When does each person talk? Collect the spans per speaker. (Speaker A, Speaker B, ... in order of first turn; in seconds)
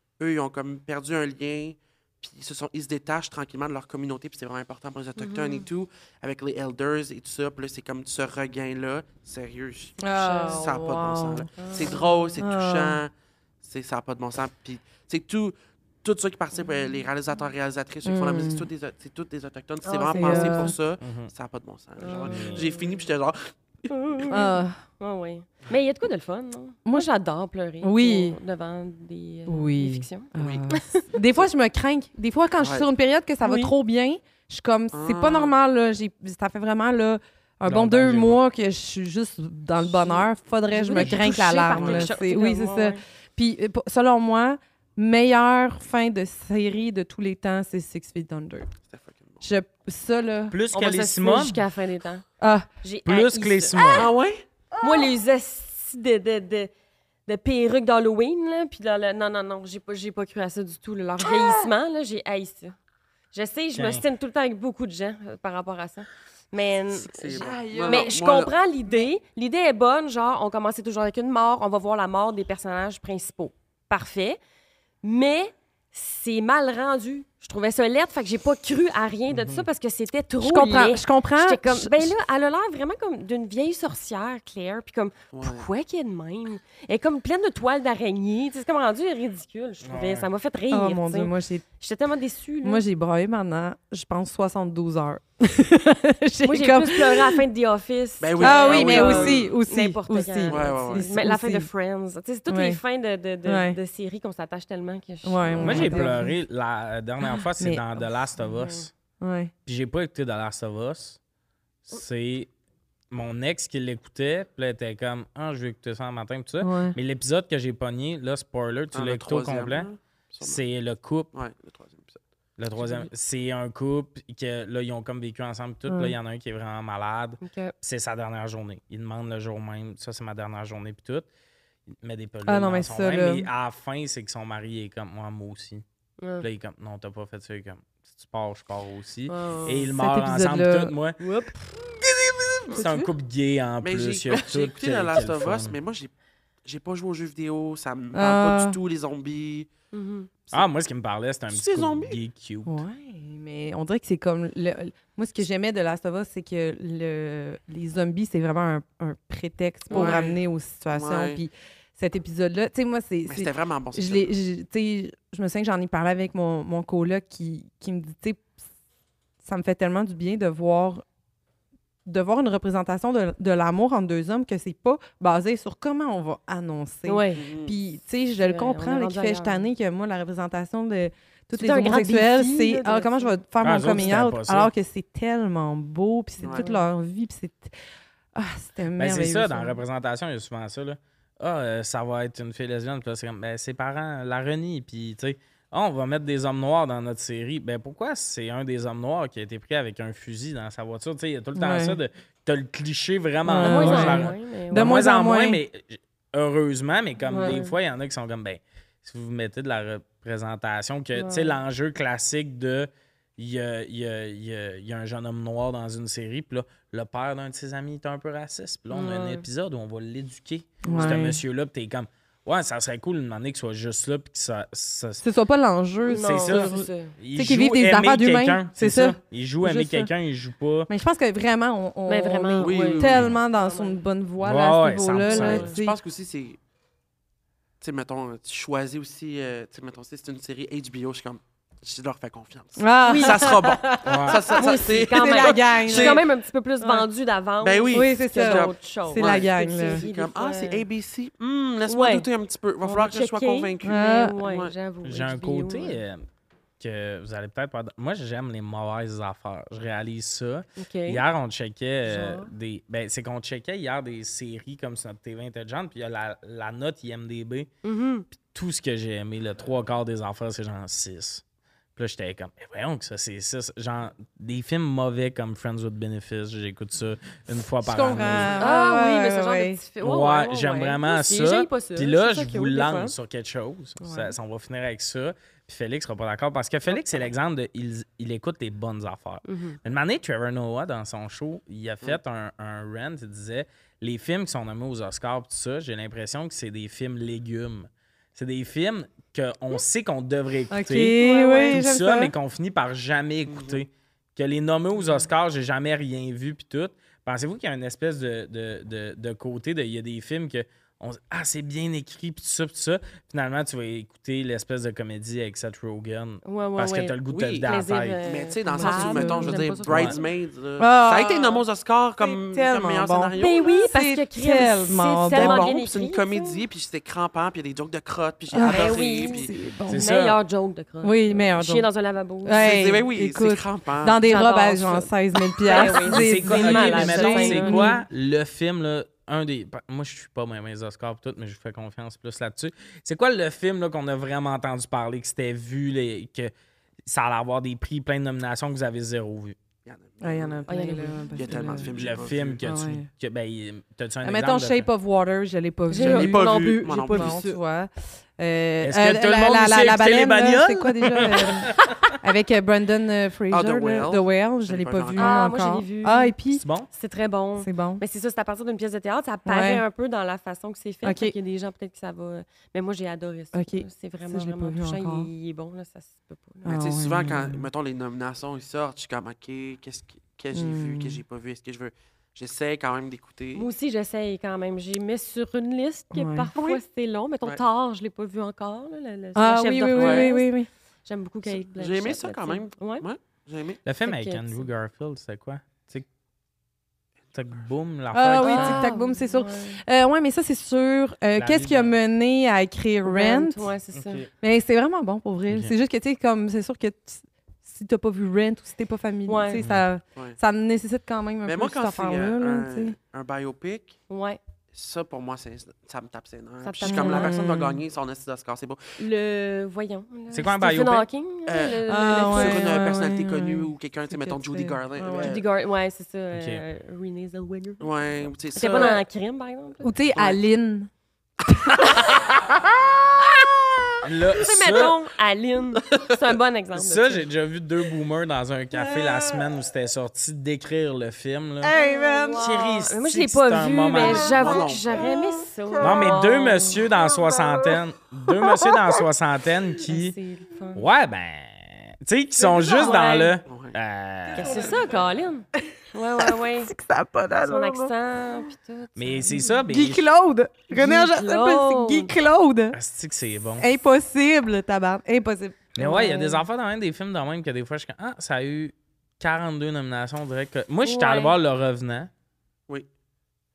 Speaker A: 0.2-24.4, 30.4-30.8, 32.6-32.9, 34.9-35.5, 41.7-42.1, 48.9-49.5, 53.9-54.4, 66.9-68.5, 85.3-85.7, 98.2-99.5, 100.5-101.0, 118.9-120.6, 121.3-122.2, 143.8-146.1, 146.7-149.7, 151.5-152.2, 159.9-160.4, 160.9-161.4, 163.3-164.3, 177.3-177.8, 220.8-221.1, 232.6-233.3, 235.5-236.6, 237.8-246.2, 247.6-254.7, 303.4-303.8, 317.3-317.7, 318.2-323.8, 325.3-329.5, 332.5-334.2, 349.9-350.6, 351.3-352.6, 356.0-357.5, 363.5-365.5, 376.6-383.7, 389.9-390.3, 391.6-393.8, 411.4-414.0, 414.7-418.9, 421.4-425.4, 427.8-429.0, 430.1-430.4, 431.7-432.8, 444.2-445.0, 453.4-453.8
Speaker B: 5.2-5.7, 10.2-10.7, 11.6-12.3, 19.8-20.8, 22.0-22.9, 23.9-31.0, 33.4-33.7, 40.7-43.0, 50.7-52.2, 52.8-54.1, 54.8-56.7, 57.3-62.8, 63.3-67.2, 67.8-74.4, 75.0-92.8, 96.4-106.0, 108.4-108.9, 127.4-127.7, 136.2-136.4, 139.3-139.9, 141.2-141.5, 149.9-150.3, 159.9-160.3, 177.1-177.4, 178.4-179.7, 181.5-183.3, 186.5-186.9, 203.6-205.0, 207.3-207.7, 211.2-211.5, 218.9-219.4, 226.1-227.2, 232.1-234.0, 235.2-235.8, 243.1-243.6, 244.6-250.8, 251.9-252.3, 252.8-256.0, 260.8-261.2, 262.0-262.5, 267.8-268.3, 278.6-283.1, 289.4-289.8, 301.2-301.8, 316.4-320.3, 323.4-326.6, 328.6-332.8, 334.2-337.9, 350.7-351.8, 355.9-357.5, 365.2-366.3, 366.9-376.8, 383.5-390.5, 391.1-393.1, 394.1-394.7, 398.4-399.8, 403.0-404.2, 409.3-409.6, 414.1-414.4, 416.6-417.5, 419.0-422.8, 425.1-427.9, 428.5-429.9, 434.3-437.3, 441.7-446.8, 449.9-450.9, 452.6-453.4, 454.4-456.7, 457.4-459.6, 460.7-462.1, 470.9-471.4
Speaker C: 10.0-11.5, 12.4-13.0, 18.0-18.7, 20.1-20.8, 24.3-24.8, 27.8-28.4, 29.5-48.7, 49.4-50.6, 52.4-52.7, 67.2-68.2, 80.4-82.2, 90.7-91.7, 92.6-97.4, 98.4-101.7, 102.5-102.8, 103.5-103.8, 105.2-106.3, 107.2-108.0, 109.2-109.5, 116.6-117.0, 125.9-126.2, 132.4-133.5, 139.7-140.9, 142.7-143.1, 148.1-148.8, 152.7-168.5, 169.4-171.0, 172.1-187.7, 188.3-189.8, 201.6-202.0, 203.4-205.6, 207.3-207.6, 220.8-221.4, 225.2-230.1, 230.9-236.0, 242.8-246.2, 247.9-250.0, 253.8-254.4, 277.8-279.8, 300.7-302.3, 318.7-319.7, 320.8-321.6, 322.2-325.7, 328.5-330.1, 331.0-331.9, 332.4-338.0, 350.2-351.9, 352.6-353.1, 354.2-366.6, 367.6-368.0, 369.4-369.8, 371.0-371.4, 373.5-375.3, 376.6-377.7, 380.5-381.2, 386.1-386.8, 389.4-390.7, 398.1-403.7, 404.4-412.9, 416.8-417.8, 421.8-425.4, 428.6-429.0, 429.8-430.9, 431.5-431.9, 438.7-439.5, 441.6-442.4, 444.0-446.1, 446.8-447.8, 448.3-449.1, 452.4-453.1, 454.3-454.8, 456.2-457.9, 459.3-462.8, 463.6-466.4
Speaker D: 21.0-21.3, 22.2-22.7, 37.7-38.4, 50.5-51.6, 53.0-54.1, 63.8-64.0, 79.3-79.7, 89.8-90.3, 105.6-108.9, 109.7-111.2, 111.9-112.5, 113.1-119.9, 120.4-121.3, 122.6-131.3, 132.0-135.8, 136.4-141.2, 142.0-145.8, 150.5-152.8, 183.6-184.7, 189.0-225.2, 226.2-230.9, 234.4-235.7, 244.1-244.4, 255.0-256.2, 256.8-267.7, 268.3-271.4, 271.9-278.6, 280.0-301.2, 301.7-318.2, 319.8-320.1, 329.9-330.4, 336.1-346.5, 347.1-349.6, 351.9-354.9, 358.8-362.2, 366.5-366.9, 393.9-396.1, 397.3-398.8, 401.4-402.0, 403.9-404.3, 409.6-409.9, 420.3-421.1, 426.3-426.6, 434.0-435.0, 436.7-441.7, 442.4-444.4, 445.8-450.2, 450.7-454.8, 458.9-460.1, 462.7-463.7, 465.8-472.1